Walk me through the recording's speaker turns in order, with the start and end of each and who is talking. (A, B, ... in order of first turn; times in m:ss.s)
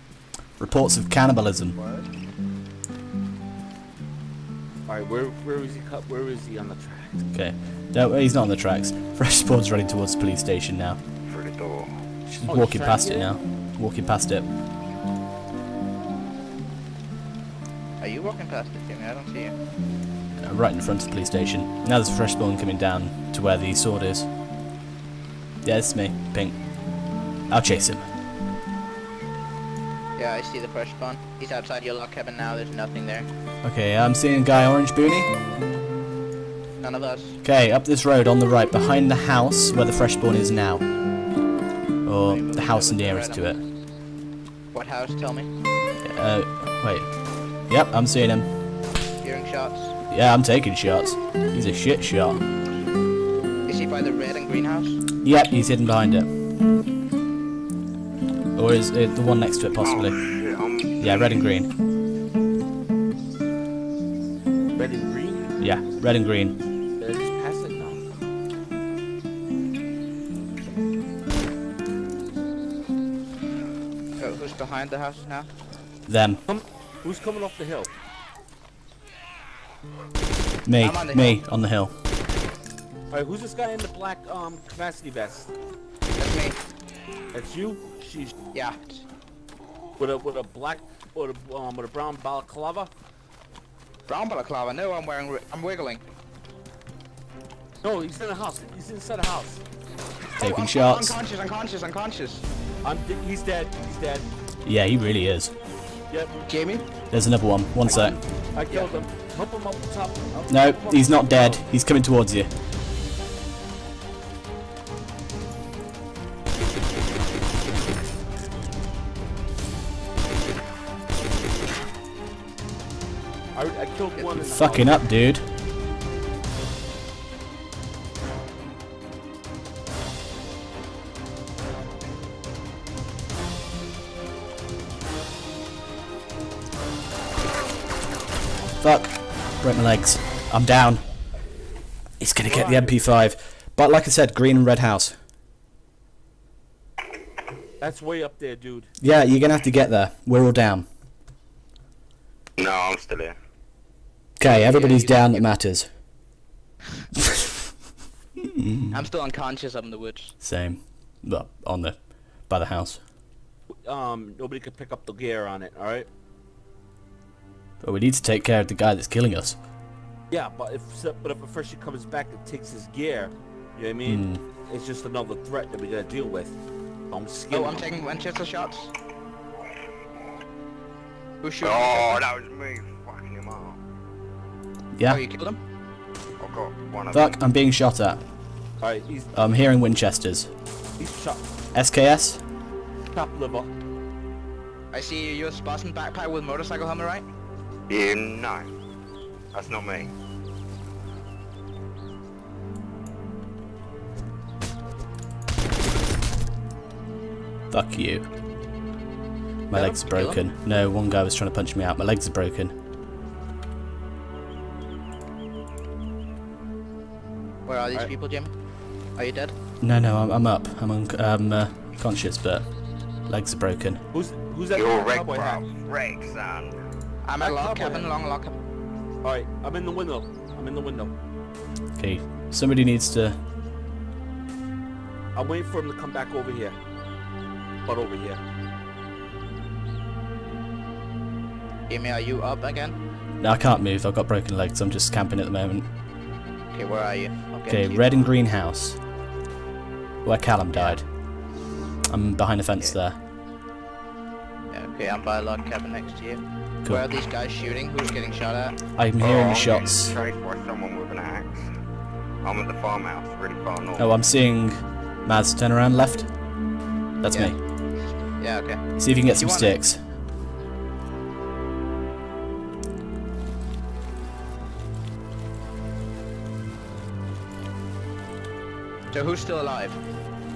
0:00.6-0:01.8 A
0:04.9-0:07.2 B
0:07.3-0:11.0 A
0:11.2-0:12.0 C
0:12.3-0:14.5 A
0:12.4-0:13.3 B
0:18.0-0:19.6 D
0:20.4-0:24.3 A
0:25.6-0:26.6 A
0:27.5-0:28.1 A
0:30.2-0:33.3 D
0:33.6-0:35.3 A
0:36.8-0:37.4 D
0:37.4-0:40.8 A
0:42.0-0:43.6 A
0:42.3-0:43.6 D
0:44.7-0:45.5 D
0:46.0-0:47.1 A
0:47.7-0:48.5 A
0:49.2-0:50.0 D
0:50.1-0:52.4 A
0:53.6-0:55.0 D
0:55.2-0:56.3 A
0:58.6-1:00.2 A
0:59.8-1:01.4 C
1:01.0-1:01.7 A
1:04.8-1:05.5 B
1:05.6-1:06.6 A
1:07.0-1:08.0 B
1:14.2-1:15.5 D
1:16.1-1:16.4 A
1:16.5-1:17.9 B
1:20.7-1:21.9 A
1:20.8-1:21.4 D
1:23.1-1:25.5 B
1:26.2-1:26.6 D
1:27.3-1:28.3 B
1:28.5-1:29.0 D
1:30.0-1:32.9 B
1:34.1-1:36.0 D
1:37.8-1:39.6 B
1:40.3-1:42.4 D
1:40.4-1:41.2 A
1:42.8-1:44.3 B
1:44.6-1:45.5 A
1:46.1-1:46.4 B
1:46.5-1:46.8 D
1:47.1-1:48.2 A
1:47.8-1:51.6 B
1:50.5-1:52.5 A
2:03.6-2:05.0 B
2:04.4-2:05.5 A
2:18.8-2:21.0 A
2:22.2-2:25.2 A
2:22.4-2:23.0 B
2:27.8-2:28.9 B
2:29.0-2:30.8 A
2:32.6-2:33.4 C
2:34.4-2:35.9 A
2:34.4-2:35.5 D
2:38.6-2:38.9 A
2:38.9-2:40.4 D
2:40.4-2:43.0 A
2:43.8-2:46.1 B
2:47.8-2:49.6 A
2:50.3-2:56.6 B
2:54.0-2:54.4 A
2:57.1-2:57.9 B
2:57.5-2:58.9 D
3:01.4-3:02.3 D
3:01.6-3:03.8 C
3:04.9-3:05.2 A
3:05.1-3:05.6 D
3:06.4-3:07.4 C
3:07.1-3:08.2 A
3:08.8-3:09.3 B
3:09.3-3:10.5 A
3:11.0-3:11.4 B
3:11.7-3:12.4 A
3:13.1-3:13.7 B
3:14.9-3:17.2 D
3:17.9-3:18.7 C
3:19.5-3:20.1 C
3:27.7-3:28.3 A
3:29.7-3:32.7 A
3:29.7-3:30.4 D
3:37.6-3:38.5 D
3:39.2-3:39.6 D
3:39.8-3:42.6 A
3:43.3-3:44.0 A
3:44.1-3:45.6 B
3:44.7-3:46.8 C
3:47.2-3:48.6 D
3:47.4-3:48.1 B
3:49.2-3:51.1 B
3:52.0-3:53.4 A
3:55.3-3:56.8 B
3:57.9-3:58.4 B
4:01.9-4:03.0 D
4:03.4-4:05.9 A
4:06.7-4:08.3 D
4:07.7-4:09.0 A
4:10.2-4:11.0 A
4:10.7-4:11.0 D
4:12.1-4:13.2 A
4:14.7-4:18.8 D
4:19.0-4:20.2 A
4:19.2-4:21.7 C
4:22.4-4:24.1 C
4:24.0-4:26.3 A
4:27.2-4:27.6 A
4:27.3-4:29.8 D
4:29.0-4:30.0 A
4:39.1-4:40.0 D